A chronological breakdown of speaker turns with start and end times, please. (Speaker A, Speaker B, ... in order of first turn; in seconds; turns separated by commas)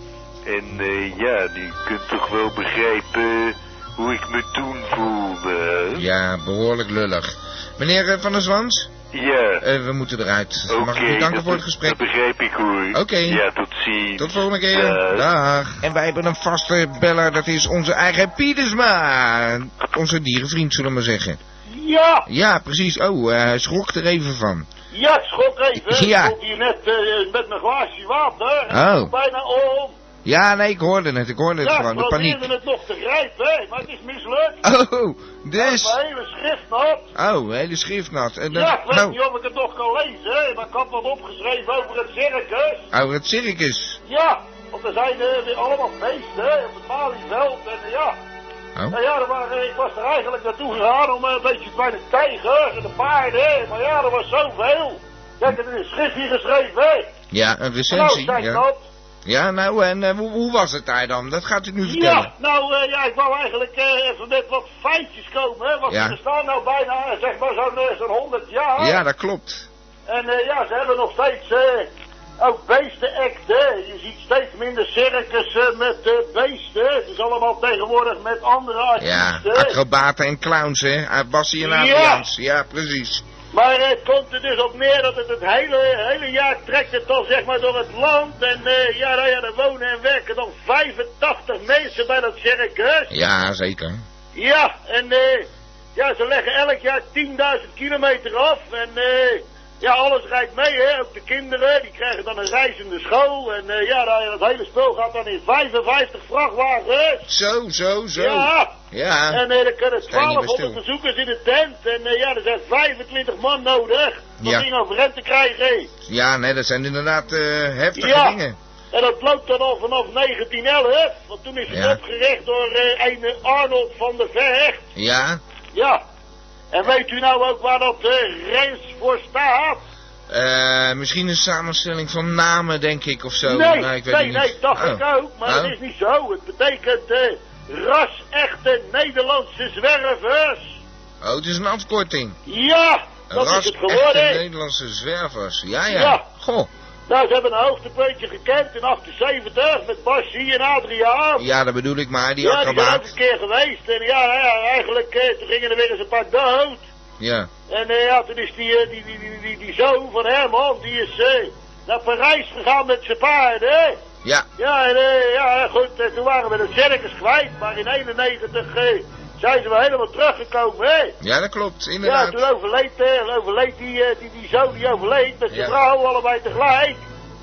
Speaker A: 0.5-6.0, Speaker B: 6.0-8.9, Speaker A: 9.1-9.6, Speaker B: 9.6-12.0, Speaker A: 10.7-15.3, Speaker B: 12.9-13.4, Speaker B: 14.2-21.4, Speaker C: 21.7-22.3, Speaker B: 22.3-24.7, Speaker C: 24.9-29.9, Speaker B: 25.8-26.4, Speaker B: 28.7-29.1, Speaker B: 30.2-32.5, Speaker C: 31.6-34.6, Speaker B: 34.6-36.0, Speaker C: 35.6-37.1, Speaker B: 37.1-39.2, Speaker C: 38.5-42.9, Speaker B: 42.9-44.0, Speaker C: 44.1-48.1, Speaker C: 48.9-57.1, Speaker B: 57.3-58.6, Speaker C: 57.9-58.8, Speaker B: 59.2-62.3, Speaker C: 61.8-69.0, Speaker B: 65.9-66.2, Speaker B: 68.8-69.7, Speaker C: 70.1-79.8, Speaker B: 79.0-83.2, Speaker C: 81.6-82.2, Speaker C: 83.5-93.1, Speaker B: 93.1-94.0, Speaker C: 94.3-107.2, Speaker B: 107.3-109.4, Speaker C: 108.2-108.7, Speaker C: 109.3-115.9, Speaker B: 110.1-110.8, Speaker B: 114.4-114.7, Speaker B: 116.0-118.6, Speaker C: 118.0-118.4, Speaker C: 118.9-124.9, Speaker B: 121.7-122.0, Speaker B: 125.0-125.4, Speaker C: 125.7-126.0, Speaker C: 126.7-129.8, Speaker B: 130.3-135.7, Speaker C: 133.4-140.8, Speaker B: 141.2-142.4, Speaker C: 142.5-144.4, Speaker B: 143.3-146.7, Speaker C: 145.9-146.2, Speaker C: 147.1-151.4, Speaker B: 151.4-153.1, Speaker C: 152.4-156.8, Speaker B: 157.2-157.5, Speaker C: 157.7-164.0, Speaker C: 164.6-171.1, Speaker B: 171.2-172.4, Speaker C: 172.0-177.0